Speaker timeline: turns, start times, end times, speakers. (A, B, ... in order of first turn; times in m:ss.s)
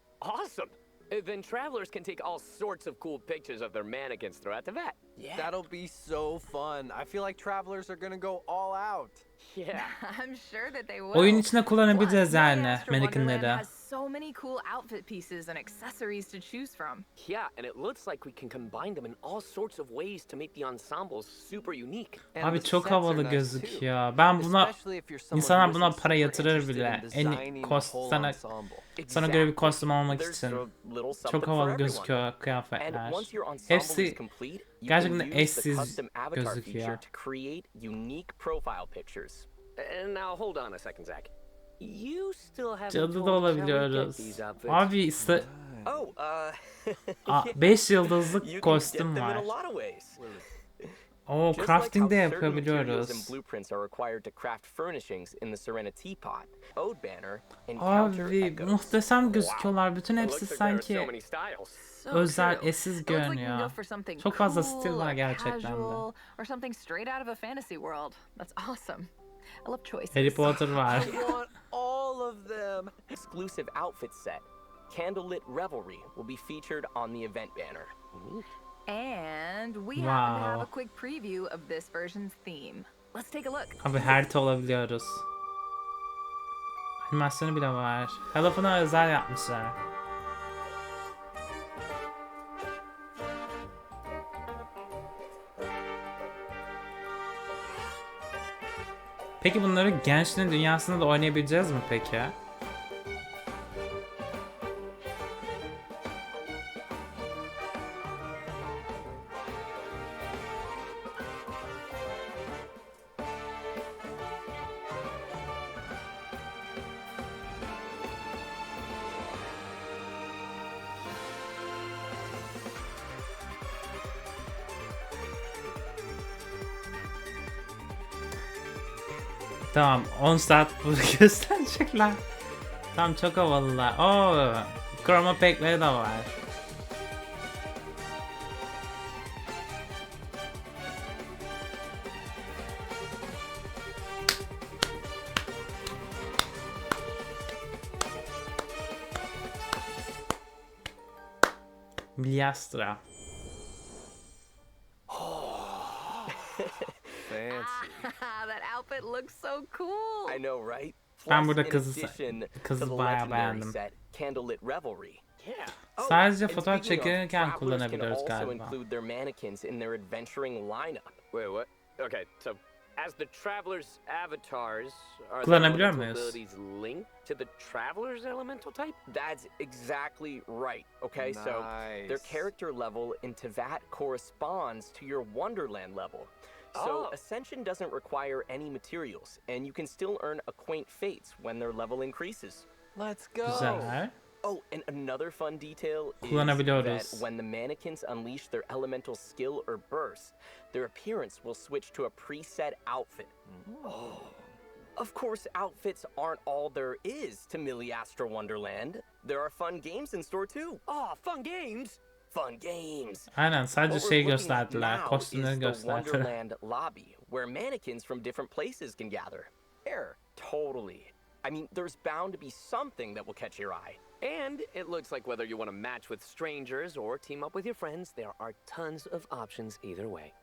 0:00.2-0:05.6 A
0:05.3-0:09.2 B
0:09.4-0:09.9 A
0:09.7-0:17.0 C
0:11.1-0:13.6 D
0:17.2-0:22.2 A
0:22.3-0:28.9 B
0:22.4-0:24.8 D
0:25.3-0:28.4 D
0:29.0-0:29.7 A
0:29.0-0:32.2 E
0:29.0-0:30.6 D
0:31.2-0:34.2 D
0:32.8-0:39.5 E
0:34.8-0:37.0 D
0:39.8-0:44.9 A
0:42.9-0:45.5 D
0:45.2-0:46.1 B
0:45.8-0:50.2 E
0:47.3-0:49.5 D
0:50.2-0:50.5 B
0:51.3-0:53.3 D
0:51.5-0:59.0 E
0:57.8-1:01.1 D
0:59.2-1:01.8 A
1:01.8-1:09.1 C
1:02.1-1:06.1 D
1:09.6-1:11.3 C
1:10.1-1:11.2 D
1:10.8-1:12.9 B
1:13.1-1:17.9 E
1:18.1-1:18.4 A
1:18.9-1:23.8 C
1:20.0-1:20.7 D
1:23.8-1:25.2 D
1:27.0-1:29.8 D
1:39.4-1:42.4 D
2:09.7-2:12.2 D
2:12.9-2:16.3 D
2:32.2-2:33.0 D
2:35.1-2:36.6 B
2:36.6-2:36.9 E
2:37.2-2:38.1 B
2:37.5-2:40.4 C
2:40.2-2:45.2 E
2:41.3-2:43.8 D
2:45.4-2:45.8 A
2:46.0-2:51.2 E
2:46.0-2:48.8 D
2:51.3-2:59.0 A
2:55.4-2:56.4 D
2:59.1-3:12.7 E
3:01.2-3:02.5 B
3:06.7-3:07.2 A
3:12.9-3:14.0 B
3:13.4-3:14.1 D
3:13.5-3:23.3 E
3:16.2-3:17.2 D
3:23.5-3:24.2 B
3:23.8-3:24.4 A
3:25.0-3:30.8 E
3:30.9-3:32.0 A
3:32.3-3:33.3 E
3:33.3-3:36.3 D
3:33.9-3:39.5 E
3:39.8-3:40.2 B
3:40.1-3:44.0 E
3:44.2-3:50.3 A